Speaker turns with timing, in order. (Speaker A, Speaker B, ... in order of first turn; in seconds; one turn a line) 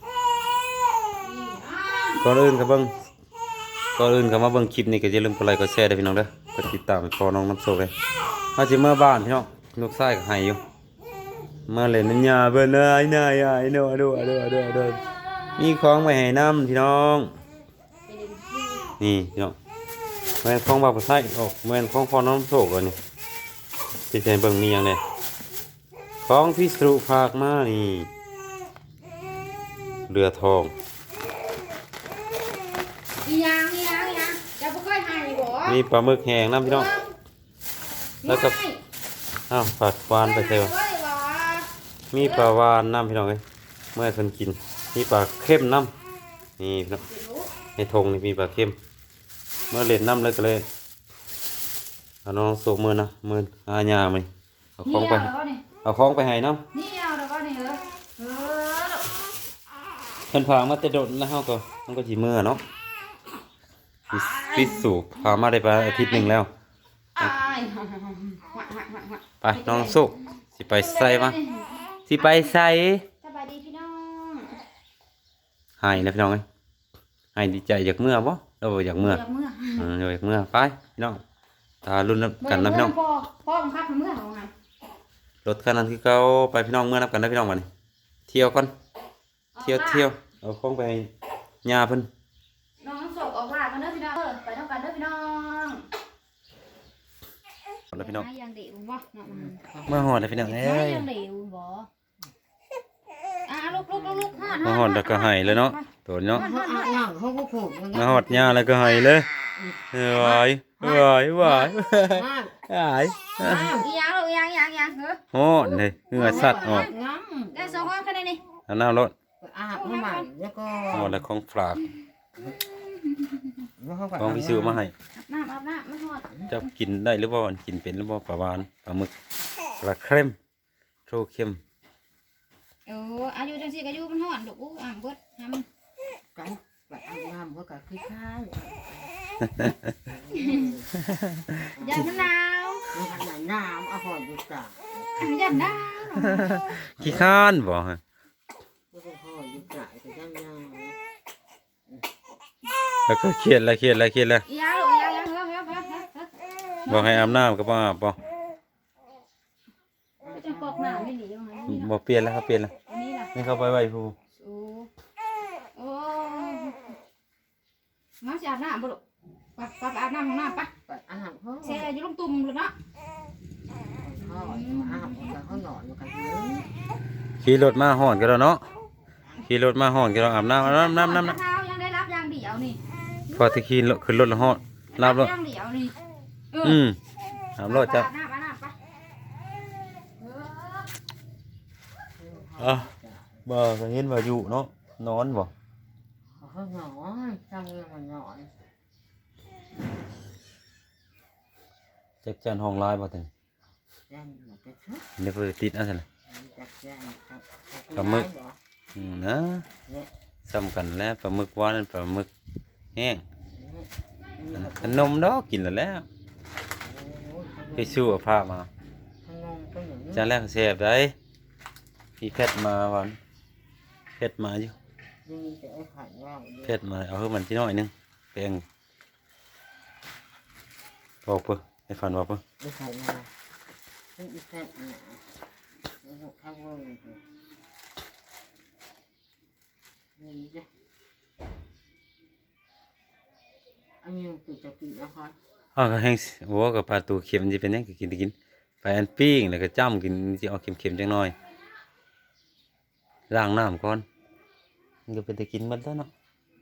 Speaker A: 1.2-2.2
Speaker B: 2.1-3.0
Speaker B: 4.0-7.9
Speaker B: 8.6-10.6
Speaker B: 11.7-15.0
Speaker B: 15.6-17.4
Speaker A: 18.1-18.9
Speaker B: 19.0-19.6
Speaker B: 20.4-23.0
Speaker B: 24.1-25.0
Speaker B: 26.2-28.1
Speaker B: 30.1-30.7
Speaker A: 33.2-35.8
Speaker B: 35.6-36.9
Speaker A: 36.6-37.1
Speaker A: 38.2-38.8
Speaker B: 38.2-38.6
Speaker B: 39.5-40.8
Speaker A: 40.2-42.5
Speaker B: 42.1-43.4
Speaker B: 44.0-45.9
Speaker B: 46.6-47.0
Speaker A: 47.1-47.5
Speaker B: 47.8-48.8
Speaker B: 49.7-50.7
Speaker B: 52.2-55.3
Speaker A: 54.9-55.6
Speaker B: 55.8-56.6
Speaker A: 56.7-59.2
Speaker B: 60.3-62.6
Speaker A: 64.1-64.9
Speaker B: 64.1-66.5
Speaker A: 65.8-66.4
Speaker A: 67.2-70.1
Speaker B: 69.4-71.4
Speaker A: 70.7-72.5
Speaker B: 72.1-73.1
Speaker A: 73.2-74.6
Speaker B: 75.8-76.4
Speaker B: 77.3-79.2
Speaker A: 79.0-79.9
Speaker B: 79.8-81.2
Speaker B: 81.8-83.0
Speaker A: 82.4-84.5
Speaker B: 85.4-87.7
Speaker B: 88.3-88.7
Speaker A: 89.5-90.1
Speaker B: 89.6-91.1
Speaker B: 91.6-92.1
Speaker A: 92.8-95.9
Speaker A: 97.9-99.6
Speaker B: 97.9-98.3
Speaker C: 99.2-100.6
Speaker B: 99.9-101.1
Speaker A: 100.3-101.9
Speaker A: 103.5-107.0
Speaker C: 103.7-104.8
Speaker B: 104.6-106.5
Speaker C: 106.3-108.7
Speaker B: 107.9-109.3
Speaker A: 108.8-109.2
Speaker C: 109.5-109.8
Speaker B: 109.9-113.7
Speaker A: 110.2-111.7
Speaker C: 112.0-112.7
Speaker C: 113.4-113.9
Speaker A: 113.4-118.4
Speaker B: 115.3-116.9
Speaker C: 116.2-117.9
Speaker B: 118.7-119.1
Speaker C: 119.4-121.3
Speaker A: 119.8-120.3
Speaker B: 120.9-121.9
Speaker A: 121.9-123.7
Speaker C: 123.8-124.8
Speaker B: 124.2-124.9
Speaker A: 125.2-126.5
Speaker B: 126.5-129.1
Speaker B: 129.8-130.4
Speaker B: 131.1-131.6
Speaker A: 132.9-135.7
Speaker C: 136.3-139.1
Speaker B: 139.5-139.9
Speaker C: 140.1-140.9
Speaker A: 140.3-140.7
Speaker B: 141.1-141.7
Speaker C: 141.8-142.3
Speaker A: 141.8-142.9
Speaker C: 142.9-145.3
Speaker A: 145.2-146.8
Speaker B: 146.2-148.0
Speaker C: 147.0-147.4
Speaker C: 148.9-151.0
Speaker B: 153.1-154.4
Speaker A: 154.5-157.4
Speaker B: 156.9-158.2
Speaker C: 160.2-161.1
Speaker A: 160.3-161.9
Speaker B: 161.7-162.7
Speaker A: 162.9-163.3
Speaker B: 163.3-164.2
Speaker A: 164.4-164.9
Speaker A: 165.8-167.0
Speaker A: 168.2-169.0
Speaker A: 169.6-170.7
Speaker C: 170.8-171.9
Speaker A: 171.6-172.7
Speaker C: 173.9-176.7
Speaker A: 174.2-175.5
Speaker B: 177.4-178.6
Speaker B: 179.4-181.4
Speaker A: 180.6-183.6
Speaker B: 183.3-185.3
Speaker A: 184.9-186.0
Speaker A: 186.5-186.8
Speaker B: 186.6-187.0
Speaker B: 187.6-188.1
Speaker A: 187.7-188.8
Speaker A: 190.2-190.8
Speaker C: 192.2-193.4
Speaker B: 192.6-192.9
Speaker B: 193.5-195.5
Speaker C: 196.4-198.5
Speaker B: 202.2-203.3
Speaker C: 204.1-205.1
Speaker B: 205.2-206.1
Speaker C: 206.3-208.6
Speaker B: 207.9-208.3
Speaker B: 208.9-209.7
Speaker B: 210.4-212.3
Speaker B: 212.9-213.2
Speaker C: 213.5-215.1
Speaker B: 214.5-216.1
Speaker C: 216.8-218.0
Speaker B: 217.8-218.7
Speaker C: 219.2-220.3
Speaker B: 220.1-221.2
Speaker B: 222.2-223.2
Speaker B: 224.2-224.7
Speaker C: 225.2-226.8
Speaker B: 226.7-228.6
Speaker B: 231.2-232.4
Speaker C: 232.6-233.3
Speaker C: 234.2-235.2
Speaker C: 236.0-237.2
Speaker C: 240.2-240.7
Speaker C: 244.0-245.4
Speaker B: 245.8-251.3
Speaker B: 253.3-254.1
Speaker B: 255.1-256.1